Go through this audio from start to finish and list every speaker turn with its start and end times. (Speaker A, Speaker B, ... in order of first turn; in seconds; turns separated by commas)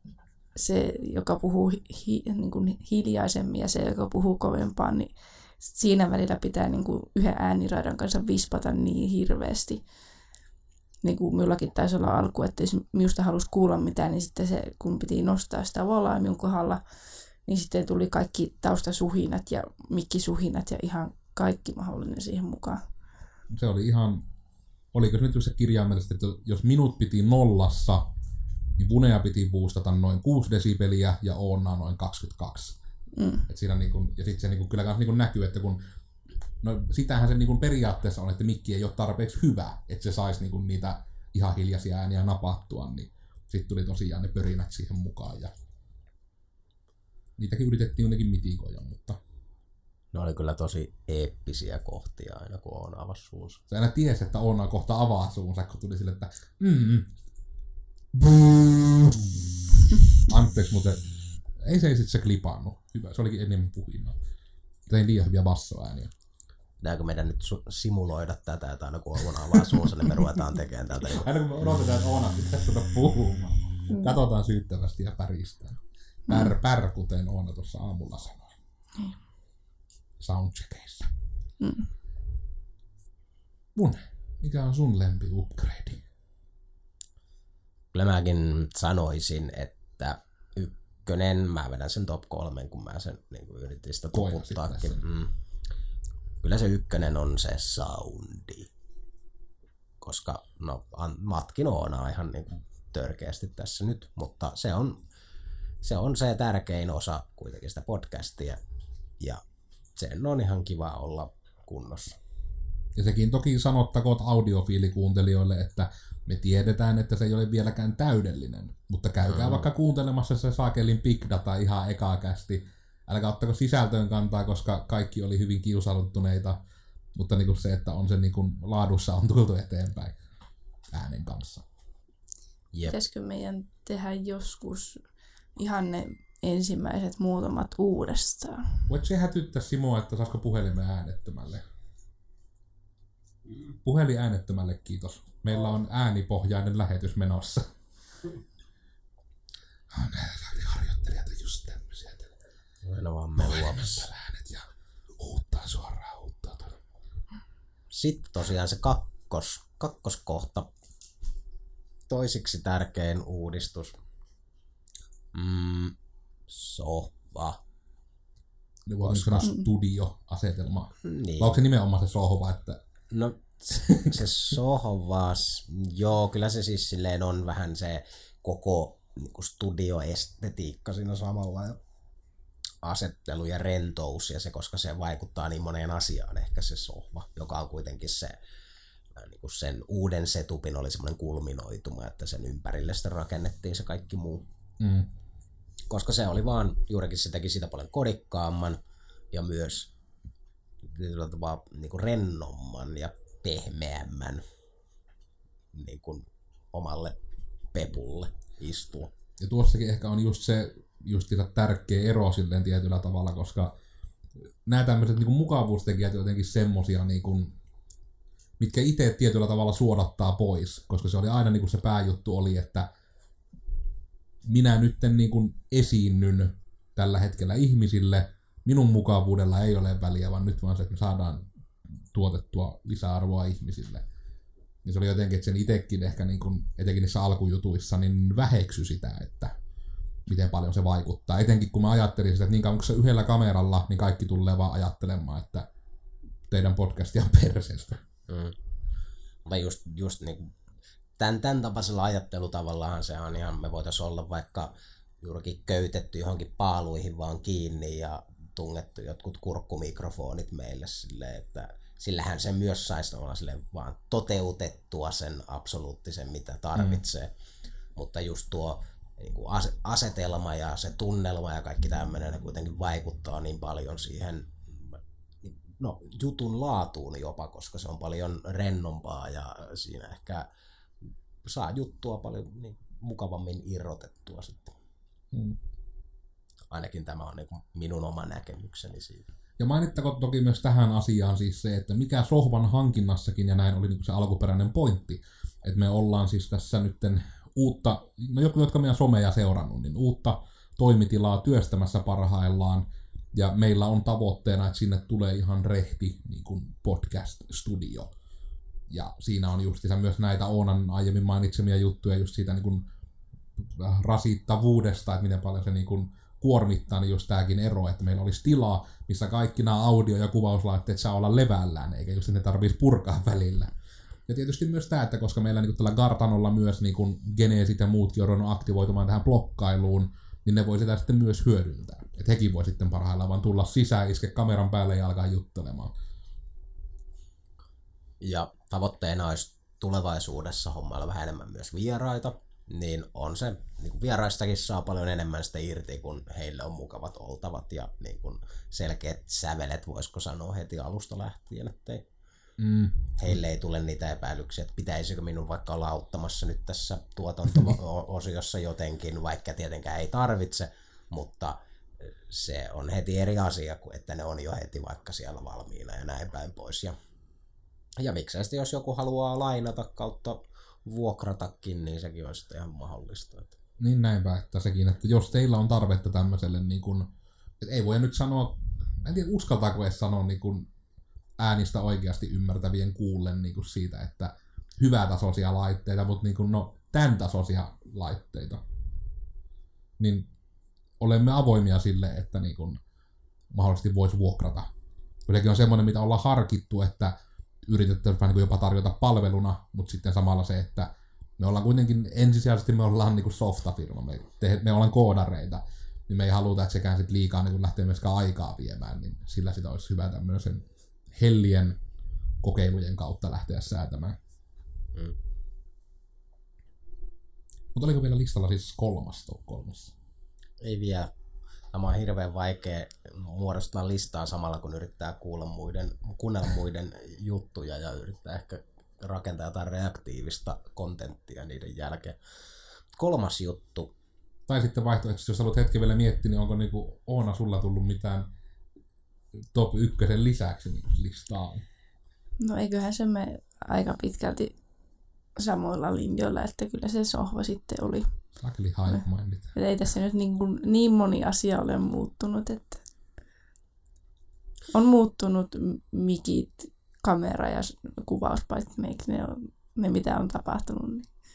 Speaker A: 0.6-9.8, Speaker A: 11.0-16.8, Speaker A: 17.5-22.8, Speaker B: 23.5-24.3, Speaker B: 24.9-28.0, Speaker B: 28.8-32.8, Speaker A: 33.2-33.5, Speaker B: 33.5-35.8, Speaker B: 36.6-45.5, Speaker B: 47.4-49.2, Speaker C: 50.1-53.6, Speaker B: 53.7-57.1, Speaker B: 58.1-59.4, Speaker B: 60.1-61.0, Speaker B: 61.6-64.2, Speaker B: 64.9-66.1, Speaker C: 66.8-71.3, Speaker B: 71.0-78.5, Speaker A: 76.3-76.5, Speaker B: 80.2-81.1, Speaker A: 81.6-81.9, Speaker B: 83.8-86.0, Speaker C: 87.9-95.3, Speaker B: 94.1-95.0, Speaker C: 96.4-98.7, Speaker C: 100.0-105.0, Speaker C: 105.8-108.6, Speaker C: 110.0-112.2, Speaker B: 113.0-126.6, Speaker C: 119.3-119.7, Speaker B: 127.2-130.2, Speaker B: 130.9-131.6, Speaker C: 132.7-133.0, Speaker A: 132.8-135.0, Speaker A: 135.6-138.8, Speaker B: 138.9-141.6, Speaker B: 143.8-147.7, Speaker B: 149.9-152.3, Speaker C: 152.8-154.1, Speaker B: 153.4-154.7, Speaker B: 155.2-156.8, Speaker C: 157.9-160.7, Speaker C: 162.1-164.0, Speaker C: 165.3-165.9, Speaker C: 166.5-167.6, Speaker B: 168.9-172.8, Speaker C: 169.0-169.5, Speaker C: 171.0-171.6, Speaker C: 173.1-181.8, Speaker B: 173.7-174.5, Speaker C: 182.8-188.4, Speaker C: 189.2-194.5, Speaker B: 194.8-195.1, Speaker C: 195.9-198.8, Speaker C: 199.3-199.9, Speaker C: 200.8-204.4, Speaker C: 205.7-207.2, Speaker C: 207.7-209.1, Speaker B: 209.4-213.7, Speaker B: 214.7-217.6, Speaker B: 218.6-222.9, Speaker B: 224.4-231.5, Speaker B: 232.1-234.1, Speaker B: 234.8-239.6, Speaker B: 240.3-245.7, Speaker B: 246.5-248.1, Speaker C: 248.3-248.6, Speaker C: 249.4-250.5, Speaker C: 251.2-267.3, Speaker B: 266.8-267.0, Speaker C: 268.0-280.5, Speaker C: 281.4-284.8, Speaker B: 285.3-285.6, Speaker C: 286.7-289.3, Speaker B: 289.6-308.1, Speaker B: 308.9-312.9, Speaker B: 313.6-323.7, Speaker B: 324.3-335.9, Speaker C: 338.2-352.1, Speaker B: 352.6-353.4, Speaker C: 353.2-367.0, Speaker C: 368.0-373.6, Speaker B: 373.8-380.7, Speaker B: 381.4-388.6, Speaker B: 390.0-390.3, Speaker B: 391.0-392.8, Speaker B: 393.5-394.7, Speaker B: 395.3-411.8, Speaker B: 412.4-414.2, Speaker B: 417.8-419.9, Speaker C: 420.6-421.1, Speaker C: 421.7-432.2, Speaker C: 432.9-433.9, Speaker B: 434.5-438.3, Speaker B: 439.4-441.6, Speaker A: 442.4-444.5, Speaker A: 445.4-448.2, Speaker B: 448.4-449.6, Speaker A: 449.5-452.8, Speaker A: 454.7-461.1